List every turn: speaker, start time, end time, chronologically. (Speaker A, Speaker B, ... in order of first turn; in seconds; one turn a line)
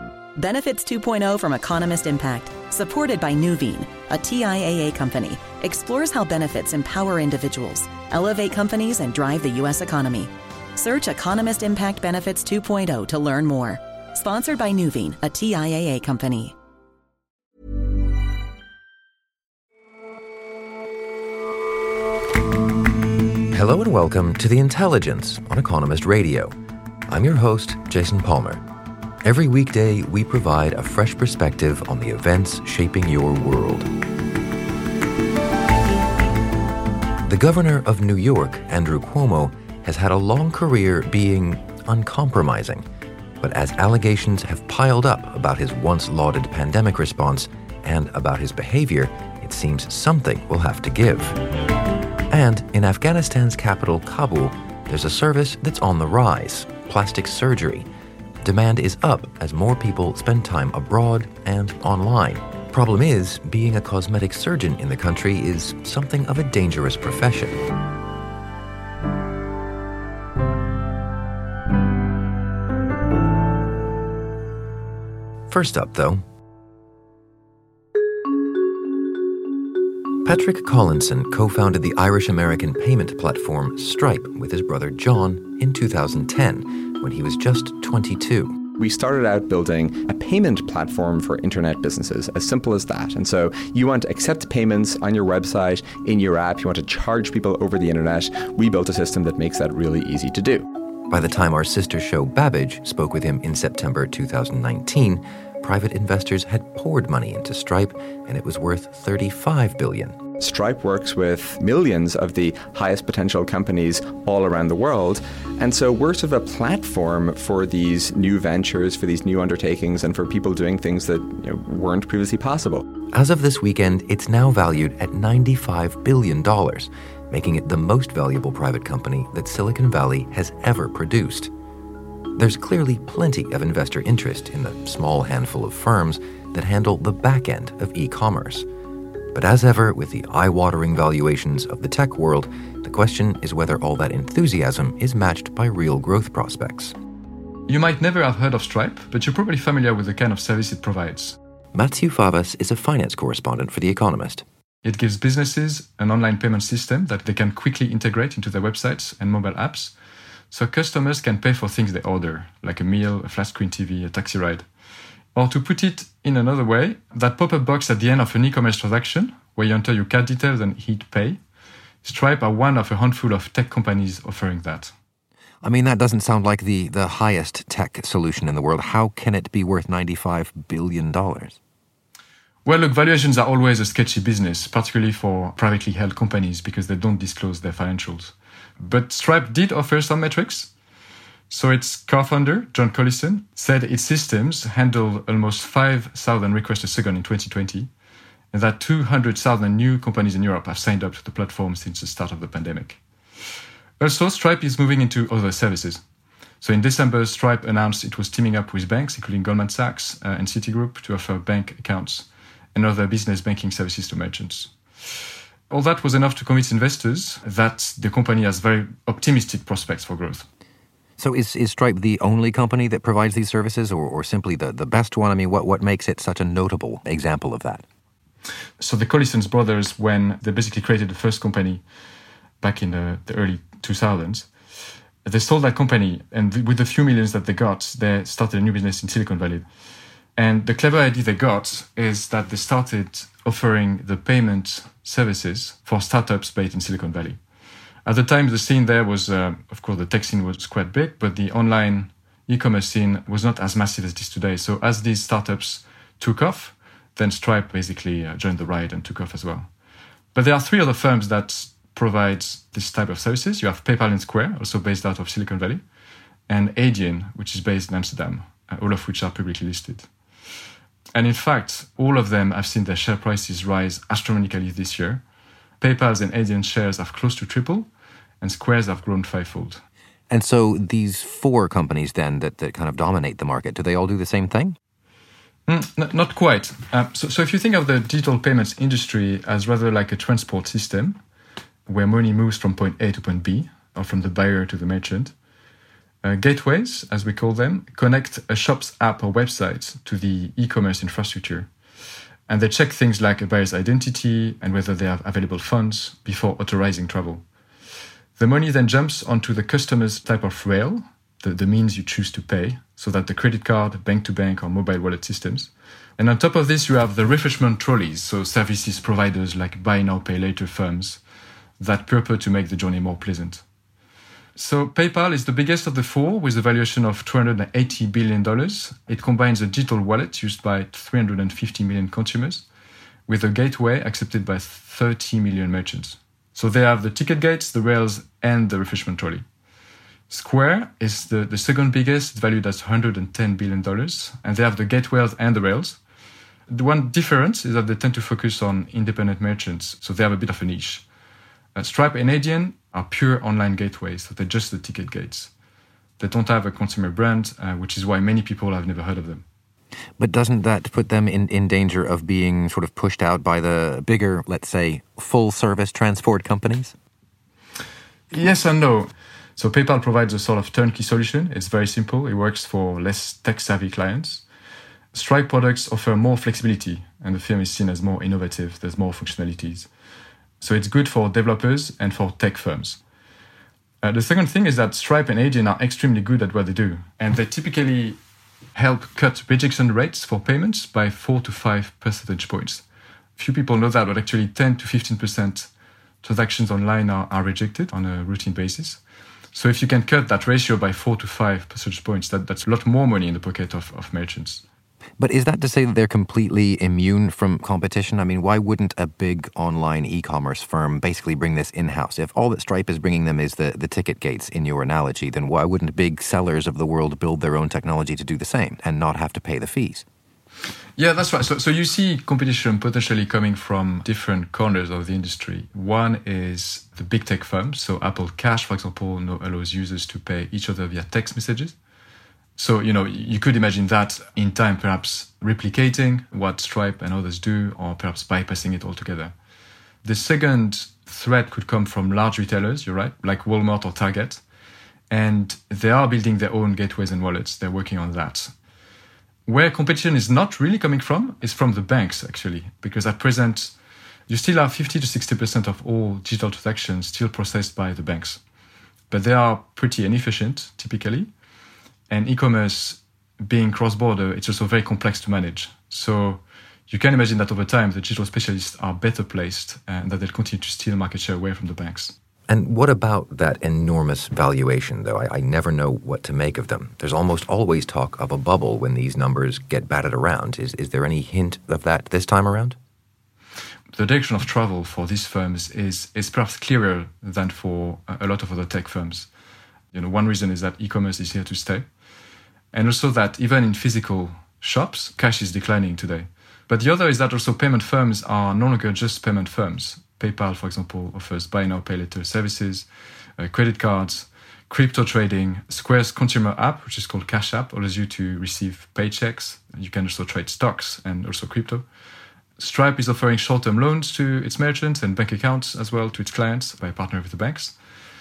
Speaker A: 0.3-16.6
Speaker B: 23.5-26.5
Speaker B: 27.1-28.6
Speaker B: 29.2-33.9
Speaker B: 37.2-42.9
Speaker B: 43.4-51.4
Speaker B: 52.3-57.9
Speaker B: 58.4-67.6
Speaker B: 75.5-76.2
Speaker B: 80.2-88.6
Speaker C: 88.8-100.7
Speaker B: 101.1-110.2
Speaker C: 110.4-122.9
Speaker B: 123.1-131.5
Speaker B: 132.3-138.7
Speaker B: 139.3-146.9
Speaker D: 147.7-151.4
Speaker B: 151.7-154.4
Speaker D: 154.8-159.9
Speaker D: 160.5-164.7
Speaker D: 165.3-171.4
Speaker D: 172.0-174.9
Speaker B: 175.6-181.6
Speaker D: 182.7-190.7
Speaker D: 191.5-197.9
Speaker D: 198.5-203.0
Speaker D: 204.0-206.0
Speaker D: 206.6-214.8
Speaker D: 215.7-220.5
Speaker B: 221.2-227.8
Speaker D: 228.8-231.8
Speaker D: 232.6-234.5
Speaker D: 235.2-239.7
Speaker D: 240.4-247.4
Speaker D: 248.1-259.7
Speaker D: 260.3-265.8
Speaker D: 266.5-270.1
Speaker D: 271.1-275.2
Speaker D: 275.8-277.9
Speaker D: 278.4-279.8
Speaker B: 280.3-284.8
Speaker D: 285.7-291.2
Speaker D: 291.9-295.3
Speaker D: 296.2-301.7
Speaker D: 302.5-307.4
Speaker D: 308.4-321.2
Speaker D: 321.8-323.6
Speaker D: 324.6-332.7
Speaker D: 333.3-339.4
Speaker D: 340.3-346.0
Speaker D: 346.7-351.1
Speaker D: 351.8-355.5
Speaker D: 356.2-359.4
Speaker B: 360.2-366.9
Speaker D: 368.3-374.4
Speaker D: 375.1-379.9
Speaker D: 380.6-383.0
Speaker D: 384.0-388.2
Speaker D: 388.8-392.8
Speaker D: 393.4-395.7
Speaker D: 396.2-399.0
Speaker D: 399.5-404.6
Speaker B: 405.2-420.1
Speaker D: 421.0-431.8
Speaker D: 432.6-439.4
Speaker D: 440.0-444.4
Speaker D: 445.1-448.5
Speaker D: 449.5-453.8
Speaker D: 454.3-458.4
Speaker D: 459.1-461.3
Speaker D: 462.1-472.2
Speaker B: 472.5-482.8
Speaker D: 483.9-489.3
Speaker D: 489.9-491.9
Speaker D: 492.7-511.9
Speaker D: 512.6-517.8